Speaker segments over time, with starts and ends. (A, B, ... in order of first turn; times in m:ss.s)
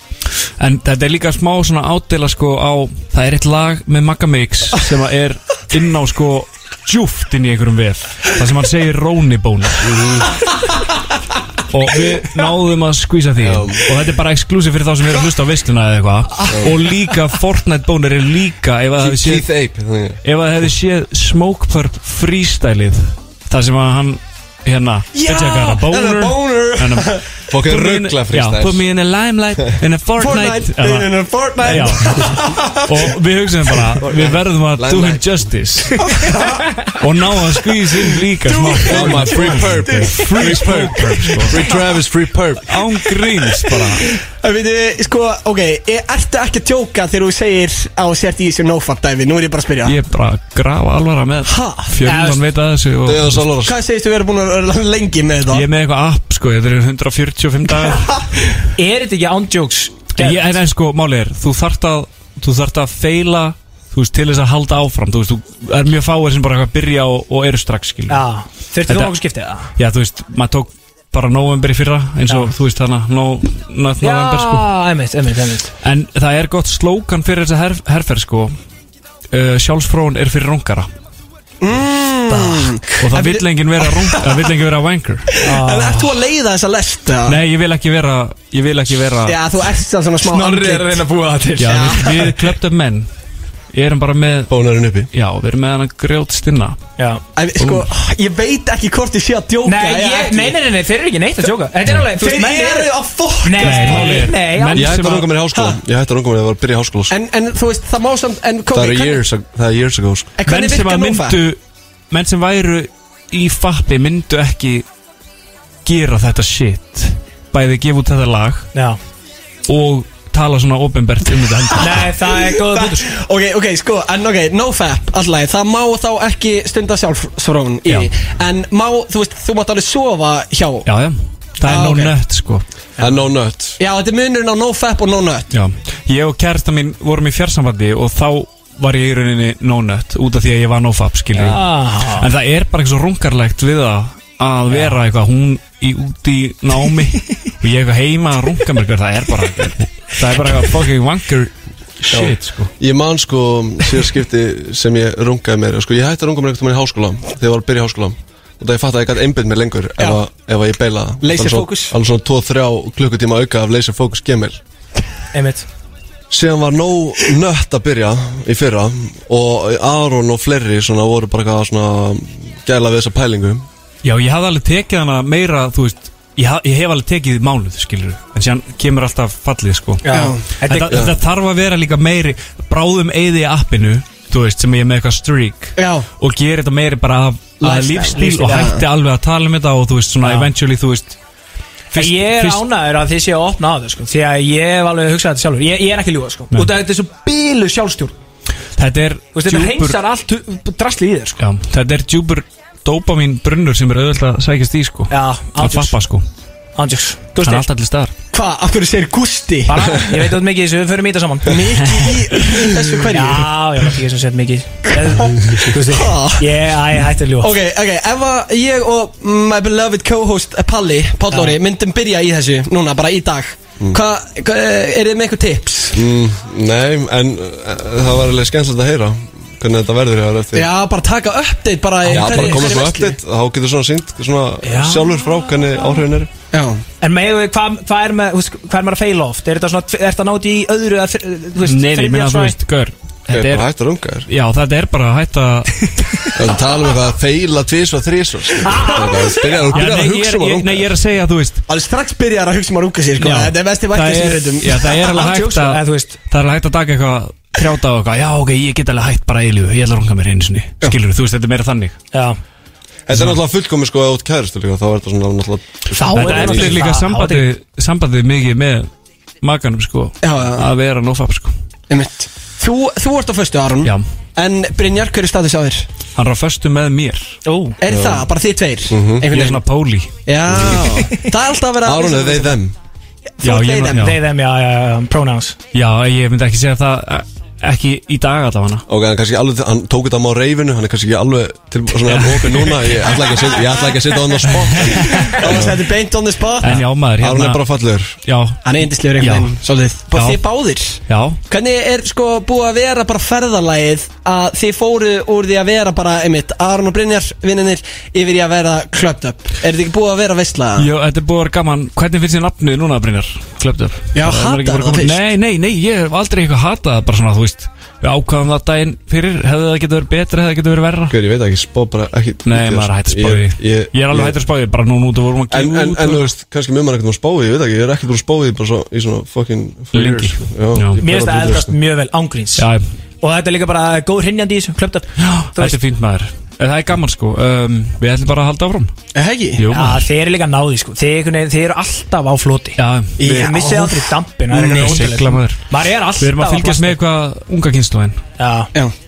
0:00.6-0:10.0 A
0:09.8-0:10.4 B
0:11.7-0:19.5 A
0:13.4-0:13.9 B
0:16.5-0:16.8 B
0:19.0-0:20.2 B
0:20.2-0:36.1 A
0:25.1-0:27.2 C
0:27.5-0:28.8 B
0:30.2-0:33.1 C
0:34.8-0:35.2 B
0:36.0-0:37.0 C
0:36.9-0:41.6 A
0:38.4-0:41.8 C
0:38.8-0:42.8 B
0:42.7-0:44.1 A
0:44.4-0:49.9 C
0:49.8-0:53.5 A
0:51.4-0:51.9 C
0:52.0-0:52.4 D
0:53.0-0:53.8 B
0:53.6-0:55.7 C
0:55.5-0:58.3 A
0:58.8-1:00.6 D
1:00.2-1:08.2 A
1:08.1-1:09.7 D
1:08.9-1:09.1 A
1:09.8-1:14.7 A
1:14.0-1:15.7 D
1:15.8-1:18.5 A
1:19.3-1:20.9 A
1:21.6-1:24.5 C
1:22.5-1:25.4 A
1:25.4-1:27.4 C
1:25.4-1:26.1 D
1:27.2-1:29.4 A
1:29.2-1:31.0 C
1:30.2-1:32.3 D
1:31.6-1:33.1 A
1:31.7-1:32.3 C
1:33.7-1:34.5 A
1:34.5-1:35.1 B
1:35.1-1:36.8 A
1:37.4-1:40.6 C
1:37.6-1:37.8 A
1:39.6-1:44.9 D
1:42.2-1:44.3 C
1:43.6-1:45.3 A
1:44.7-1:47.1 B
1:45.0-1:45.8 C
1:47.1-1:49.2 C
1:48.7-1:50.3 B
1:50.4-1:51.4 C
1:50.5-1:51.6 A
1:52.1-1:54.9 A
1:55.8-1:58.7 A
1:58.7-1:59.0 D
1:59.7-2:02.1 A
2:01.8-2:03.1 D
2:02.6-2:10.9 C
2:10.9-2:12.6 A
2:11.6-2:12.1 C
2:13.0-2:13.8 B
2:13.8-2:15.5 C
2:15.5-2:32.7 A
2:21.4-2:22.3 D
2:24.7-2:25.0 D
2:32.1-2:44.6 B
2:41.2-2:42.0 C
2:45.3-2:45.7 D
2:46.3-2:53.7 B
2:54.0-3:00.1 A
3:00.0-3:01.1 D
3:00.1-3:00.4 C
3:00.6-3:11.2 A
3:00.9-3:01.2 B
3:05.8-3:06.1 C
3:07.6-3:08.8 C
3:10.2-3:10.5 D
3:11.9-3:12.6 A
3:12.0-3:18.2 D
3:18.8-3:20.0 A
3:19.4-3:21.4 D
3:21.4-3:26.2 A
3:25.1-3:25.9 D
3:26.8-3:27.6 D
3:27.4-3:28.1 A
3:28.3-3:30.0 C
3:29.7-3:31.6 D
3:31.5-3:33.5 C
3:33.1-3:37.5 D
3:35.0-3:36.5 C
3:37.4-3:46.0 C
3:41.3-3:41.6 D
3:45.9-3:50.7 B
3:50.5-3:53.2 C
3:52.1-3:52.8 D
3:52.1-3:56.3 B
3:54.6-3:55.1 D
3:56.5-3:56.8 C
3:57.0-4:02.6 D
4:01.6-4:03.7 A
4:03.3-4:04.3 B
4:04.3-4:06.3 A
4:06.4-4:10.9 B
4:08.6-4:10.1 D
4:09.7-4:11.6 A
4:11.7-4:14.9 C
4:13.2-4:22.0 A
4:14.9-4:16.2 D
4:22.1-4:22.4 D
4:23.1-4:26.9 B
4:23.1-4:23.4 A
4:26.0-4:27.5 D
4:26.1-4:28.9 A
4:29.4-4:31.5 A
4:30.2-4:30.6 C
4:31.9-4:35.9 C
4:36.2-4:37.4 A
4:37.5-4:37.8 D
4:37.8-4:39.6 C
4:37.9-4:38.3 B
4:38.9-4:39.3 B
4:39.3-4:40.2 A
4:40.3-4:42.6 C
4:40.5-4:41.2 B
4:41.8-4:42.8 B
4:43.4-4:44.1 C
4:43.4-4:44.2 A
4:43.9-4:45.6 D
4:45.7-4:48.8 A
4:48.9-4:55.8 B
4:52.1-4:52.9 A
4:54.8-4:55.4 A
4:55.0-4:56.8 C
4:56.6-4:57.6 A
4:57.2-4:58.2 B
4:58.2-4:59.6 A
4:58.6-5:10.9 C
5:00.1-5:00.4 A
5:01.1-5:01.4 A
5:10.8-5:21.2 A
5:14.1-5:15.2 C
5:21.1-5:24.4 B
5:22.4-5:26.3 A
5:25.5-5:31.7 B
5:29.9-5:31.0 A
5:31.0-5:32.7 D
5:32.6-5:32.8 A
5:33.2-5:35.8 D
5:35.2-5:38.9 A
5:39.2-5:39.6 C
5:39.6-5:40.0 A
5:39.7-5:47.0 D
5:42.8-5:43.6 A
5:43.2-5:45.1 C
5:44.6-5:45.6 A
5:46.2-5:48.2 A
5:48.4-5:48.7 D